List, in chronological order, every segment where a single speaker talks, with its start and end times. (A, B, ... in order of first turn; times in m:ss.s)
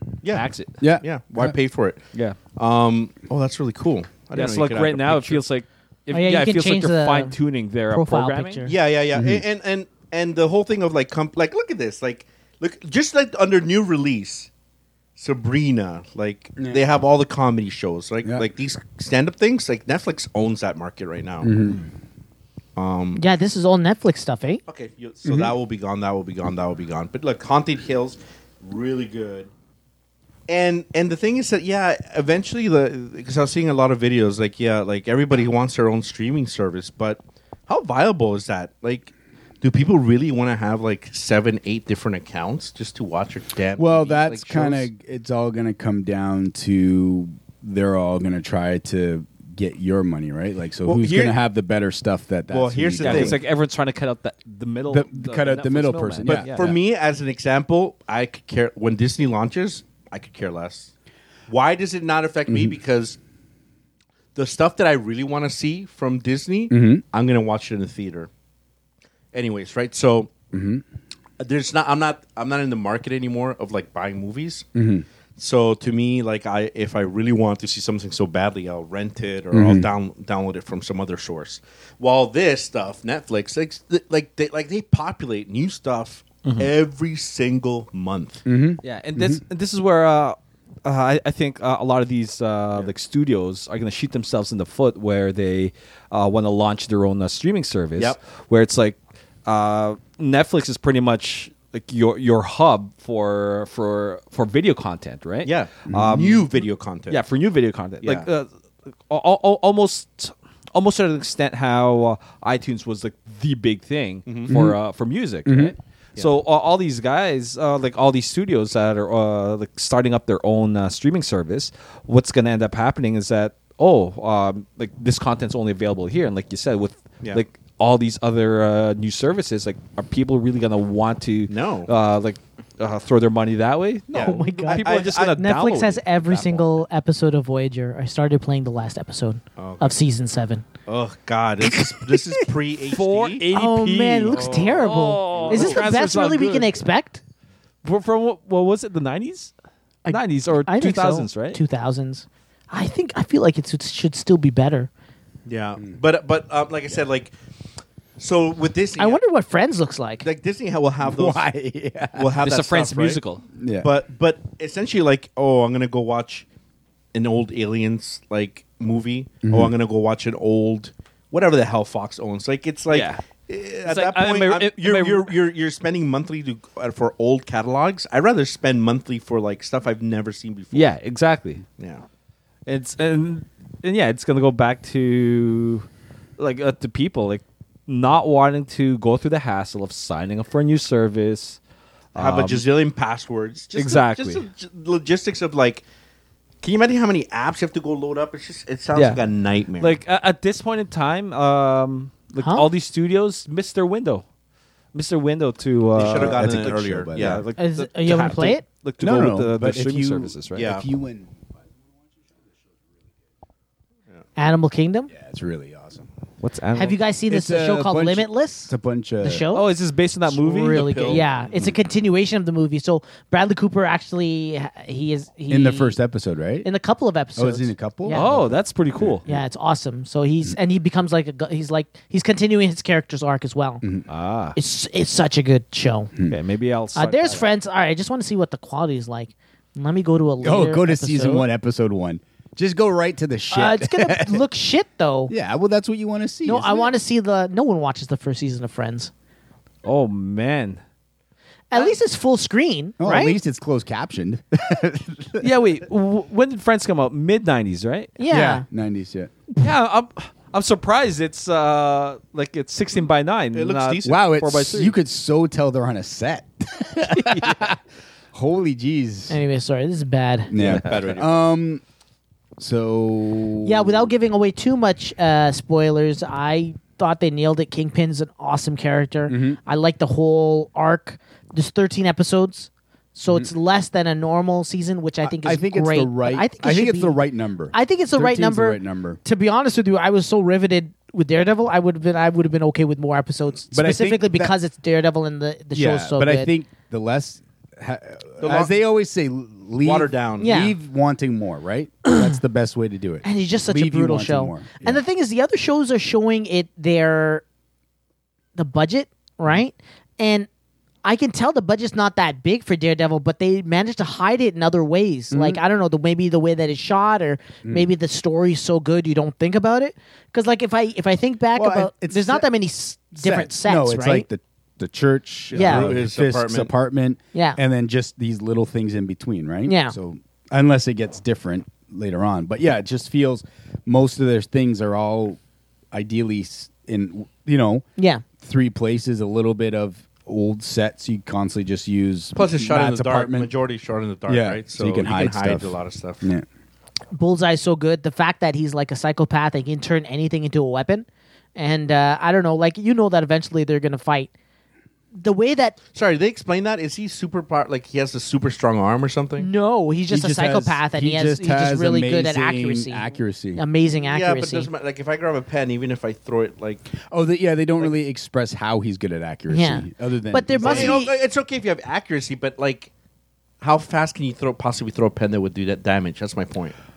0:00.3-0:00.8 A
0:00.8-0:01.5 B
0:01.0-0:05.4 C
0:04.3-0:08.7 A
0:06.1-0:07.3 D
0:07.9-0:08.7 D
0:08.6-0:14.5 C
0:09.1-0:09.4 B
0:15.2-0:21.5 C
0:21.4-0:21.8 B
0:22.8-0:23.2 C
0:23.2-0:24.6 D
0:24.7-0:29.5 C
0:25.2-0:25.5 B
0:30.5-0:44.9 C
0:43.8-0:53.4 B
0:50.8-0:51.4 C
0:52.5-0:53.4 C
0:53.0-0:56.7 A
0:54.9-0:56.8 B
0:56.2-1:00.9 C
1:01.5-1:03.2 C
1:02.5-1:02.8 B
1:04.3-1:08.3 C
1:06.7-1:07.0 B
1:09.3-1:10.3 C
1:10.5-1:10.8 B
1:11.4-1:14.6 C
1:14.7-1:15.0 B
1:15.4-1:28.4 C
1:19.5-1:19.9 B
1:26.4-1:26.7 A
1:28.4-1:29.4 B
1:28.8-1:46.5 A
1:45.4-1:47.2 C
1:45.9-1:46.2 B
1:47.1-1:48.5 A
1:48.0-1:48.3 C
1:49.1-2:16.7 A
1:54.2-1:54.5 C
1:54.5-1:54.8 B
1:55.4-1:55.7 B
2:11.5-2:11.9 C
2:14.1-2:15.4 C
2:14.1-2:20.6 D
2:19.6-2:20.0 C
2:20.8-2:23.4 C
2:22.9-2:26.8 A
2:23.5-2:27.2 D
2:24.3-2:25.8 C
2:27.8-2:29.5 A
2:30.0-2:34.9 D
2:30.1-2:31.6 A
2:35.4-2:37.3 C
2:38.2-2:39.2 C
2:39.0-2:40.2 D
2:40.2-2:41.4 C
2:41.0-2:42.3 B
2:42.1-2:43.2 C
2:42.4-2:43.4 A
2:43.6-2:43.9 B
2:43.8-2:46.4 C
2:47.1-3:00.9 C
2:49.4-2:49.7 B
2:52.9-2:53.2 A
2:53.8-2:55.3 A
3:00.7-3:01.6 A
3:01.8-3:02.0 C
3:02.6-3:05.9 A
3:06.4-3:11.6 A
3:12.1-3:12.6 A
3:12.1-3:15.8 C
3:13.7-3:14.4 A
3:16.6-3:20.0 C
3:18.9-3:19.2 A
3:19.8-3:24.2 A
3:22.4-3:22.7 D
3:24.9-3:30.7 A
3:25.9-3:27.4 C
3:26.2-3:27.4 B
3:27.6-3:28.6 D
3:29.0-3:31.3 B
3:30.6-3:30.8 C
3:34.4-3:35.1 D
3:35.1-3:36.1 B
3:36.4-3:37.0 A
3:36.7-3:39.7 D
3:37.3-3:39.4 B
3:39.5-3:41.2 A
3:40.2-3:46.0 D
3:40.7-3:41.6 C
3:45.5-3:46.7 B
3:46.6-3:48.3 D
3:47.4-3:49.4 B
3:48.1-3:49.2 A
3:49.2-3:53.8 D
3:54.1-3:54.6 A
3:54.5-3:56.1 D
3:56.2-3:57.5 A
3:56.9-4:01.4 D
4:00.4-4:04.4 B
4:03.5-4:05.3 D
4:05.3-4:06.9 B
4:06.4-4:09.1 D
4:09.8-4:10.8 A
4:11.7-4:13.4 D
4:13.0-4:15.5 B
4:15.4-4:18.1 A
4:18.2-4:18.6 D
4:18.3-4:19.3 B
4:19.6-4:24.9 A
4:23.5-4:24.2 C
4:24.0-4:27.8 B
4:27.3-4:27.6 A
4:28.3-4:29.4 B
4:29.3-4:30.5 D
4:30.5-4:31.8 B
4:30.6-4:31.4 C
4:30.6-4:31.0 A
4:32.6-4:34.1 B
4:33.6-4:47.2 D
4:39.3-4:39.6 B
4:45.2-4:49.2 B
4:47.7-4:56.5 D
4:53.7-4:54.5 B
4:55.7-5:05.0 B
4:58.4-4:58.8 C
4:59.8-5:00.5 C
5:00.4-5:00.8 D
5:03.2-5:07.4 D
5:08.6-5:10.5 D
5:11.0-5:24.2 D
5:15.3-5:15.6 B
5:21.5-5:22.5 B
5:23.1-5:35.4 B
5:25.5-5:26.7 C
5:25.5-5:25.9 D
5:27.3-5:27.6 D
5:29.6-5:30.0 D
5:35.9-5:37.8 B
5:38.0-5:38.2 D
5:38.4-5:43.5 B
5:42.3-5:46.3 C
5:44.3-5:46.4 B
5:47.1-5:54.3 D
5:55.1-5:55.8 D
5:55.9-5:59.5 C
5:59.4-6:03.0 D
6:00.1-6:03.6 B
6:03.6-6:04.7 D
6:04.0-6:07.0 C
6:07.0-6:11.0 B
6:09.5-6:11.1 D
6:10.6-6:12.9 C
6:13.6-6:16.8 C